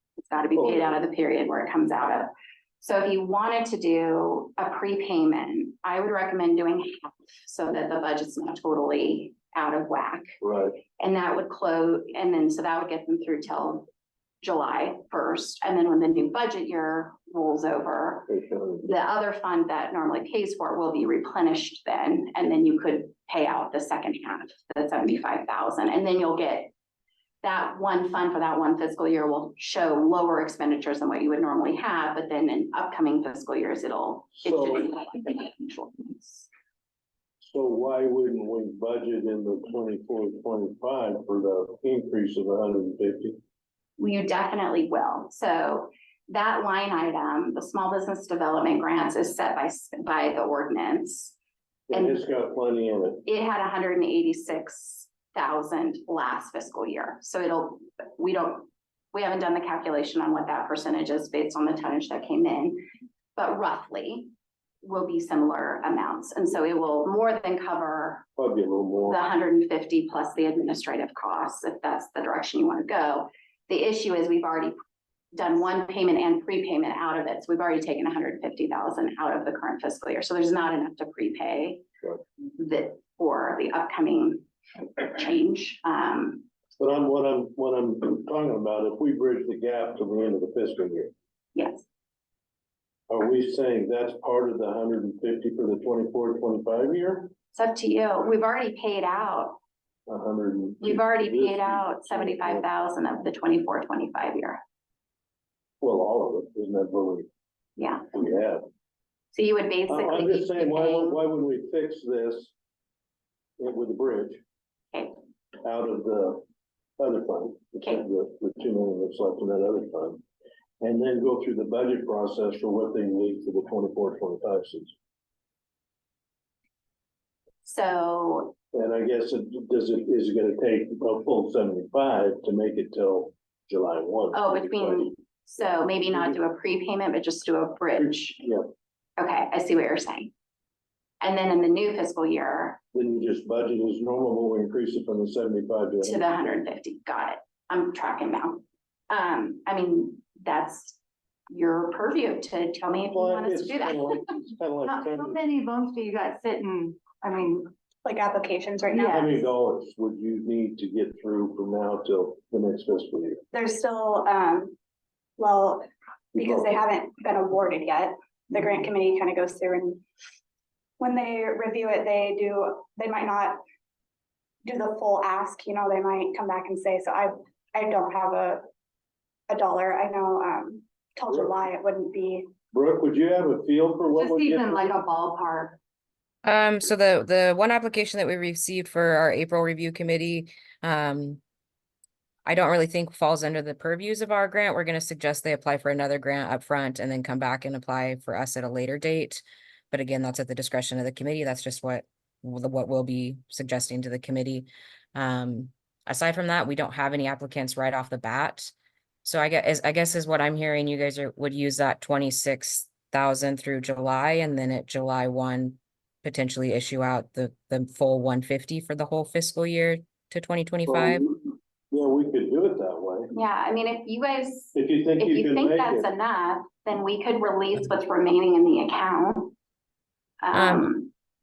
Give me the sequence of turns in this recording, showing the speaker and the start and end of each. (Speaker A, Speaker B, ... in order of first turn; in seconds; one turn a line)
Speaker A: 0.2-2.3
Speaker B: 0.5-0.9
Speaker A: 2.8-10.3
Speaker B: 10.4-10.8
Speaker A: 11.0-13.9
Speaker A: 14.4-18.3
Speaker B: 18.3-18.9
Speaker A: 18.8-26.7
Speaker A: 27.4-36.5
Speaker B: 34.3-34.9
Speaker B: 37.4-43.4
Speaker A: 44.0-51.4
Speaker B: 51.9-53.2
Speaker A: 51.9-52.2
Speaker A: 53.2-62.8
Speaker A: 63.4-64.3
Speaker A: 64.8-68.2
Speaker B: 68.3-69.2
Speaker A: 69.1-74.7
Speaker A: 75.3-81.8
Speaker A: 82.4-86.4
Speaker B: 86.8-91.1
Speaker A: 91.5-91.8
Speaker B: 93.1-97.3
Speaker A: 97.5-99.6
Speaker B: 100.1-102.6
Speaker A: 100.8-104.6
Speaker B: 105.8-107.3
Speaker A: 107.8-108.1
Speaker B: 108.1-108.6
Speaker A: 109.3-111.2
Speaker B: 109.9-112.5
Speaker B: 113.6-114.4
Speaker B: 115.6-116.4
Speaker B: 117.0-120.2
Speaker B: 120.8-124.9
Speaker A: 127.6-128.5
Speaker B: 128.7-135.0
Speaker A: 134.3-138.4
Speaker B: 136.1-136.4
Speaker B: 138.0-138.6
Speaker A: 139.2-140.3
Speaker A: 141.2-142.8
Speaker B: 142.9-146.2
Speaker A: 146.0-151.0
Speaker A: 151.5-154.3
Speaker B: 153.1-155.4
Speaker C: 154.9-157.7
Speaker D: 158.0-159.4
Speaker B: 158.9-163.4
Speaker D: 163.5-164.7
Speaker D: 165.4-170.0
Speaker B: 166.3-166.7
Speaker D: 171.0-173.6
Speaker D: 174.6-178.6
Speaker D: 179.5-182.5
Speaker B: 182.7-184.9
Speaker C: 184.1-185.8
Speaker E: 186.4-191.4
Speaker E: 192.5-208.7
Speaker E: 209.2-221.2
Speaker B: 220.9-223.3
Speaker A: 223.3-229.5
Speaker B: 224.7-226.1
Speaker A: 230.4-231.1
Speaker E: 230.5-230.9